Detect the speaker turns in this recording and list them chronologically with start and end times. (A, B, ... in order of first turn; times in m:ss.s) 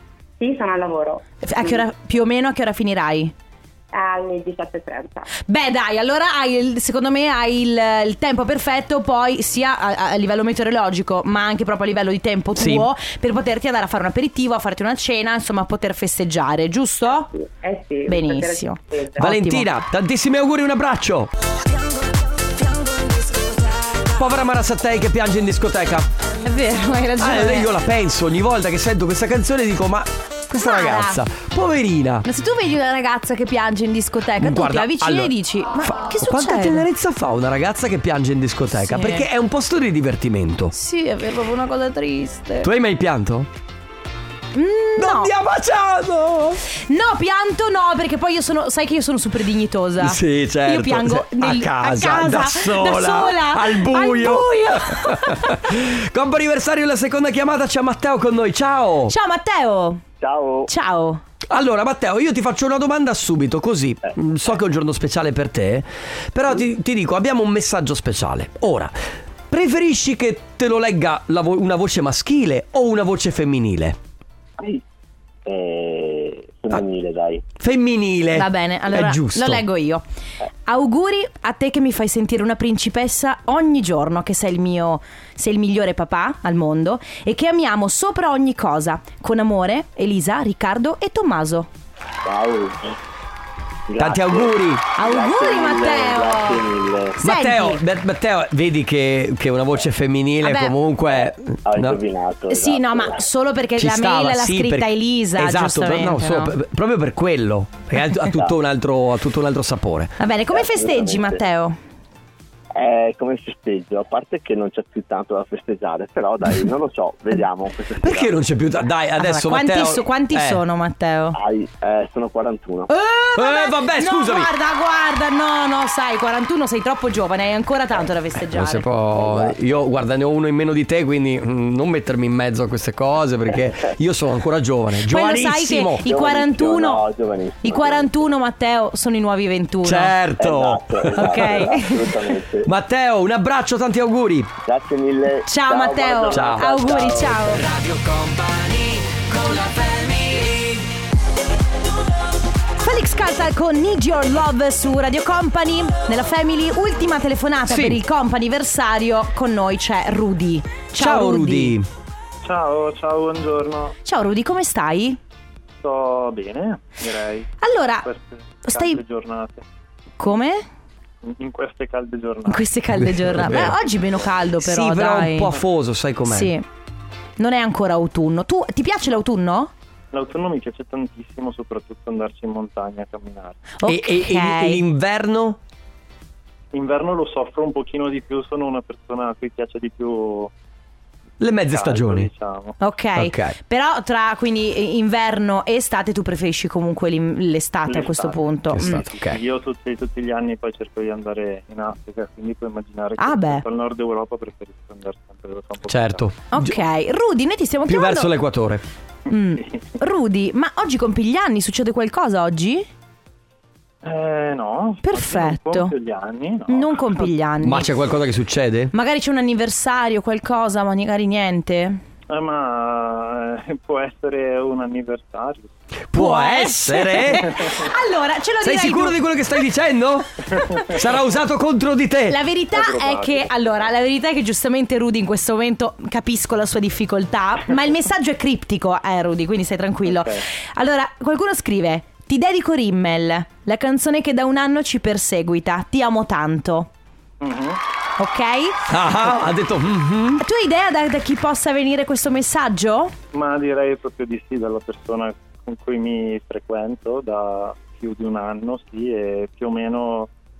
0:00.4-0:01.8 A
0:01.4-0:03.3 B
0:03.9-0:05.3 A
0:05.4-0:17.3 B
0:12.6-0:12.9 C
0:17.1-0:19.2 A
0:18.1-0:19.7 B
0:19.2-0:21.3 C
0:23.0-0:23.4 B
0:24.1-0:26.1 C
0:26.4-0:27.7 B
0:27.2-0:32.2 C
0:30.6-0:31.2 B
0:32.2-0:36.8 B
0:34.4-0:40.7 C
0:38.8-0:39.2 B
0:40.7-0:42.7 B
0:42.6-0:43.5 C
0:44.5-0:45.3 B
0:45.0-0:46.6 C
0:46.9-0:55.7 B
0:50.0-0:59.1 C
0:59.1-1:00.0 B
1:00.2-1:00.7 D
1:00.7-1:01.2 B
1:01.5-1:08.9 C
1:09.5-1:14.0 C
1:15.4-1:17.4 D
1:17.6-1:19.6 C
1:18.3-1:20.0 B
1:20.6-1:31.7 B
1:32.2-1:32.9 D
1:33.9-1:37.2 D
1:34.0-1:34.8 C
1:35.0-1:36.6 B
1:37.2-1:37.8 B
1:37.2-1:42.0 C
1:40.4-1:40.7 B
1:41.1-1:43.2 D
1:42.5-1:46.5 B
1:43.8-1:50.1 C
1:50.2-1:51.8 B
1:50.5-1:51.4 D
1:52.7-1:58.3 D
1:58.0-2:00.6 C
1:59.2-2:01.4 B
2:01.3-2:02.9 D
2:02.9-2:08.9 B
2:03.3-2:04.5 C
2:08.5-2:16.0 C
2:09.1-2:09.6 D
2:15.1-2:17.0 B
2:16.0-2:18.1 D
2:17.6-2:20.1 B
2:19.8-2:21.7 C
2:20.4-2:22.7 D
2:21.1-2:22.2 B
2:22.6-2:24.5 C
2:24.6-2:27.6 D
2:25.5-2:27.6 B
2:26.3-2:26.8 C
2:27.6-2:30.8 C
2:32.8-2:41.8 B
2:37.7-2:38.0 C
2:41.0-2:41.9 C
2:42.4-2:44.0 E
2:44.0-2:45.2 B
2:45.8-2:47.5 E
2:47.6-2:48.1 B
2:48.0-2:49.6 E
2:48.6-2:49.0 B
2:50.2-2:50.6 B
2:51.2-2:53.1 E
2:52.5-2:55.5 B
2:53.3-2:53.7 C
2:54.6-2:56.5 C
2:56.2-2:56.6 B
2:57.4-2:59.7 B
3:00.1-3:03.6 E
3:03.8-3:04.8 B
3:03.8-3:05.6 C
3:06.7-3:10.5 E
3:11.4-3:12.3 C
3:11.7-3:12.8 E
3:12.8-3:19.0 B
3:13.2-3:13.6 C
3:17.9-3:26.3 E
3:18.7-3:19.4 C
3:23.2-3:23.6 B
3:25.9-3:26.8 C
3:26.5-3:28.3 B
3:27.9-3:28.8 C
3:29.3-3:32.9 B
3:34.0-3:37.3 E
3:35.0-3:35.9 B
3:36.7-3:37.9 B
3:37.6-3:38.9 C
3:38.9-3:42.0 B
3:42.3-3:45.7 E
3:46.1-3:47.7 C
3:46.1-3:49.2 B
3:47.4-3:47.9 E
3:48.6-3:52.4 C
3:50.5-3:51.0 E
3:52.3-4:06.9 B
3:52.7-3:53.7 E
4:00.1-4:00.4 E
4:07.4-4:07.8 E
4:08.2-4:08.8 B
4:08.9-4:10.4 C
4:10.4-4:13.1 B
4:13.3-4:20.3 E